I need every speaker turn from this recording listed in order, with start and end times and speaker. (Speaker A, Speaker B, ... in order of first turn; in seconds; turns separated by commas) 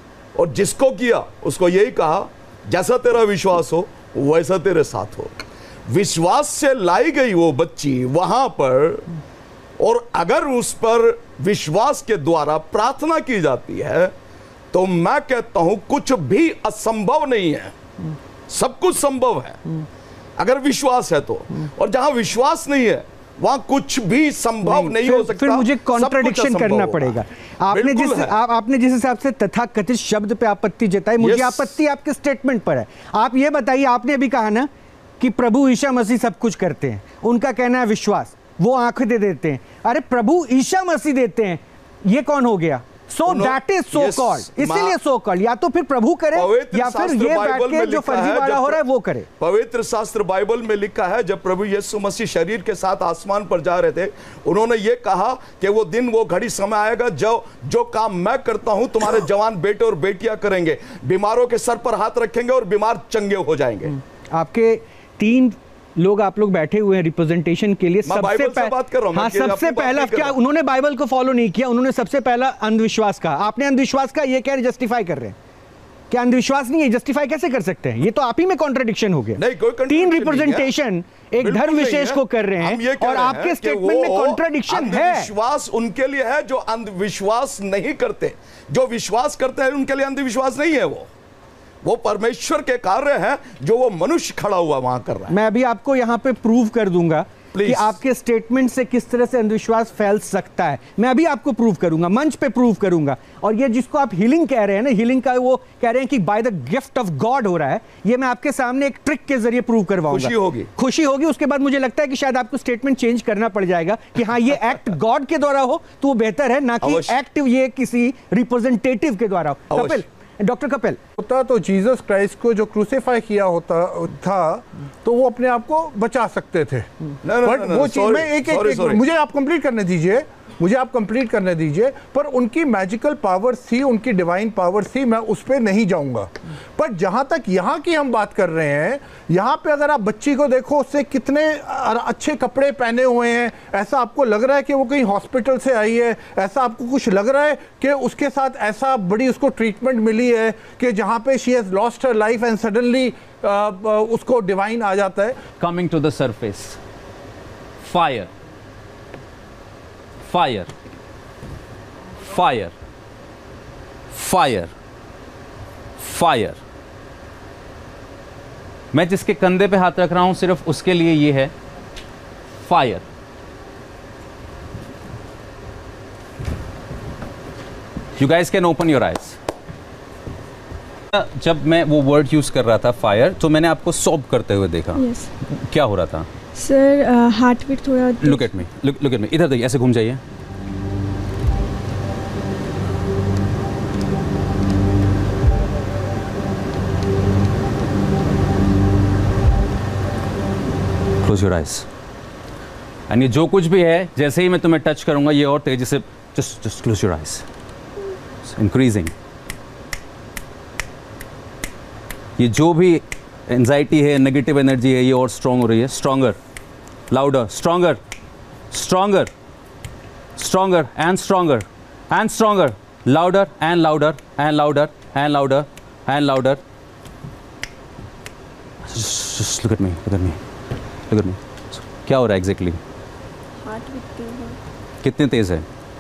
Speaker A: 0.3-9.1, Speaker A: 9.8-14.1, Speaker A: 14.7-17.8, Speaker A: 18.5-19.6, Speaker A: 20.4-28.4, Speaker B: 24.6-34.7, Speaker A: 31.2-31.8, Speaker B: 35.2-49.3, Speaker A: 43.2-45.0, Speaker A: 46.3-48.8, Speaker A: 49.4-64.0, Speaker B: 64.3-75.4, Speaker A: 68.0-70.4, Speaker B: 76.1-85.3, Speaker A: 79.4-80.7, Speaker A: 81.4-91.1, Speaker A: 91.8-95.4, Speaker B: 95.3-121.0, Speaker A: 97.5-98.0, Speaker A: 110.1-110.7, Speaker A: 116.8-117.2, Speaker A: 119.7-120.0, Speaker C: 121.2-126.9, Speaker A: 127.2-129.0, Speaker C: 127.4-155.4, Speaker D: 155.6-156.8, Speaker D: 157.8-158.3, Speaker D: 160.3-160.7, Speaker D: 162.3-162.7, Speaker D: 164.1-164.7, Speaker D: 166.0-166.6, Speaker D: 168.9-171.5, Speaker D: 172.6-173.1, Speaker D: 178.2-179.4, Speaker D: 181.1-186.3, Speaker E: 184.9-185.3, Speaker E: 186.5-188.5, Speaker D: 188.2-190.2, Speaker D: 201.2-201.9, Speaker D: 203.1-207.4, Speaker D: 208.4-209.1, Speaker D: 212.4-216.4, Speaker D: 217.1-218.0, Speaker D: 218.7-219.3, Speaker D: 220.4-226.6, Speaker D: 228.8-230.4, Speaker D: 231.1-232.8, Speaker E: 233.6-234.6, Speaker D: 235.0-235.7